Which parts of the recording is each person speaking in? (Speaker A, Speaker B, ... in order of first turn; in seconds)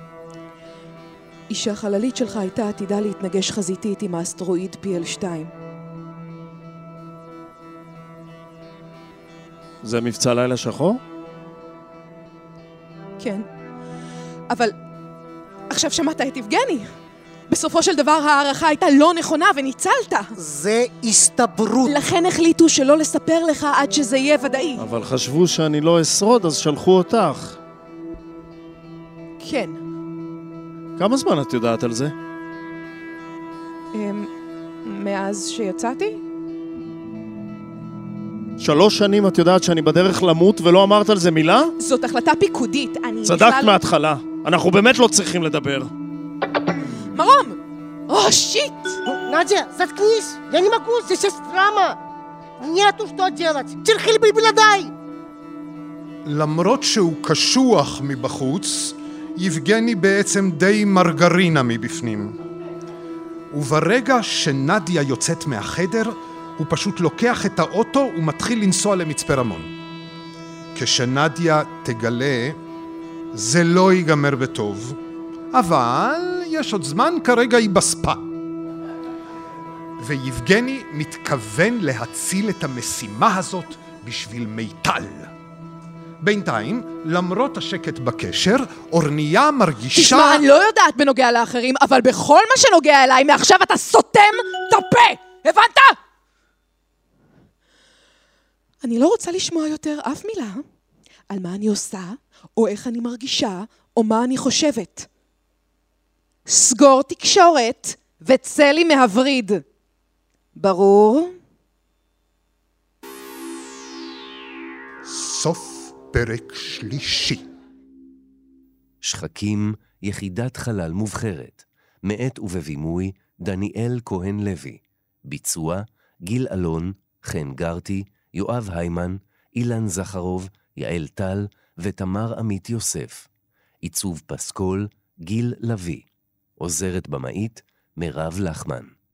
Speaker A: 1.5-5.5, 13.2-13.4, 15.7-16.9, 17.5-20.3, 21.9-24.9, 29.4-29.8, 33.9-34.3, 34.9-36.2, 41.8-43.8, 47.0-47.6, 48.1-49.0, 89.9-96.0, 98.8-100.6, 101.3-105.1, 106.5-109.6, 110.5-111.3
Speaker B: 9.8-11.0, 24.8-27.6, 31.0-32.1, 38.6-41.7, 43.2-45.9
Speaker C: 20.4-21.9, 49.1-52.0, 52.6-54.9
Speaker D: 56.2-62.3, 63.5-69.7, 70.7-72.6, 73.3-75.0, 75.5-78.2, 80.0-85.3, 86.2-90.5, 115.0-117.4
Speaker E: 119.0-133.3, 133.8-136.1, 136.6-138.9